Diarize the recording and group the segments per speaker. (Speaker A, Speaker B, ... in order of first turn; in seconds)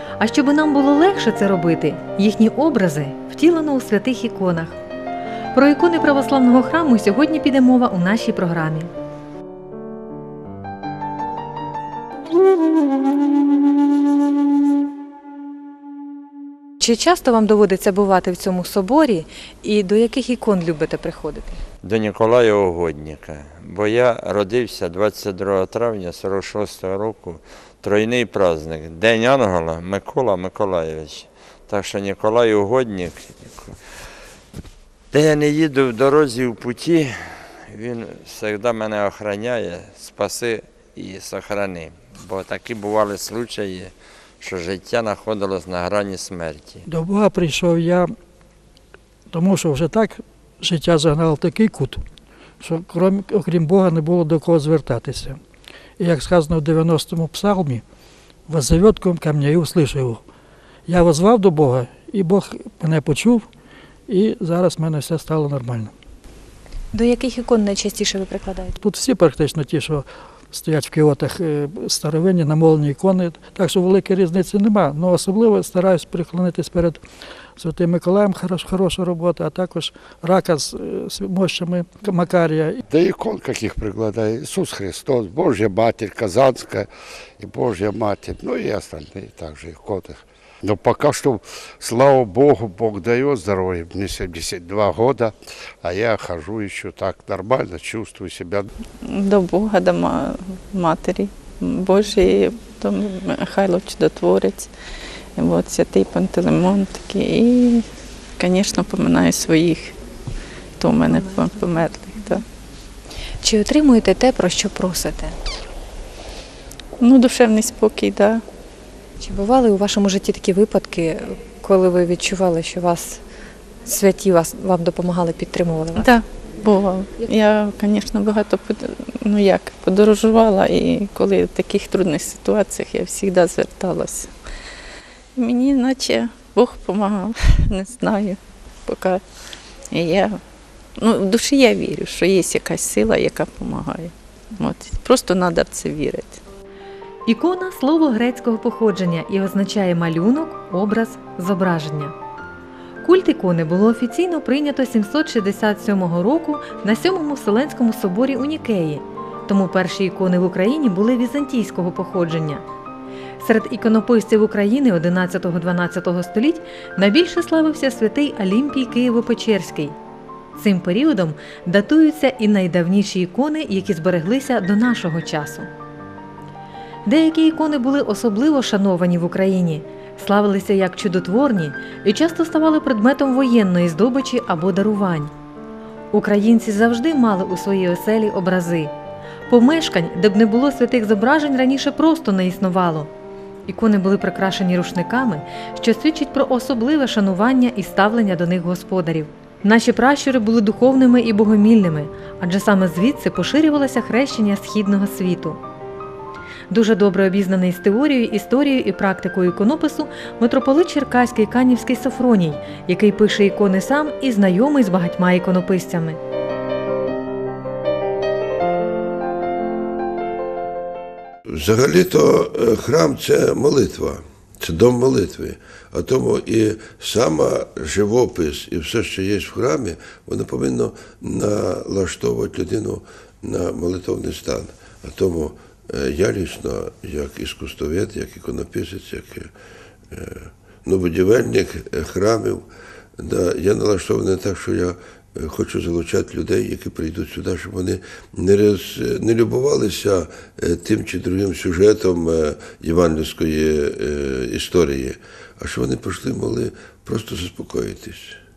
Speaker A: 0.2-4.8, 5.5-8.9, 16.8-21.6, 66.9-68.8, 113.4-115.4, 119.2-123.2, 123.9-126.1, 147.3-152.2, 153.0-162.6, 163.4-170.0, 170.6-175.7, 177.1-185.3, 186.1-188.9, 189.5-193.1, 193.7-205.6, 206.7-216.2
Speaker B: 21.8-33.7, 35.1-37.2, 37.7-46.8
Speaker C: 46.9-48.1, 49.3-52.0, 52.6-55.4, 56.0-57.8, 58.5-60.2, 60.9-63.5, 64.1-65.9, 68.8-77.0, 77.6-82.8
Speaker D: 82.9-98.7
Speaker E: 99.0-104.7, 105.4-107.9, 108.4-110.0, 110.8-112.4, 117.0-118.4, 126.0-134.3, 135.4-139.2, 139.9-140.4, 141.0-146.4
Speaker F: 221.5-239.5, 240.1-242.7, 243.2-258.4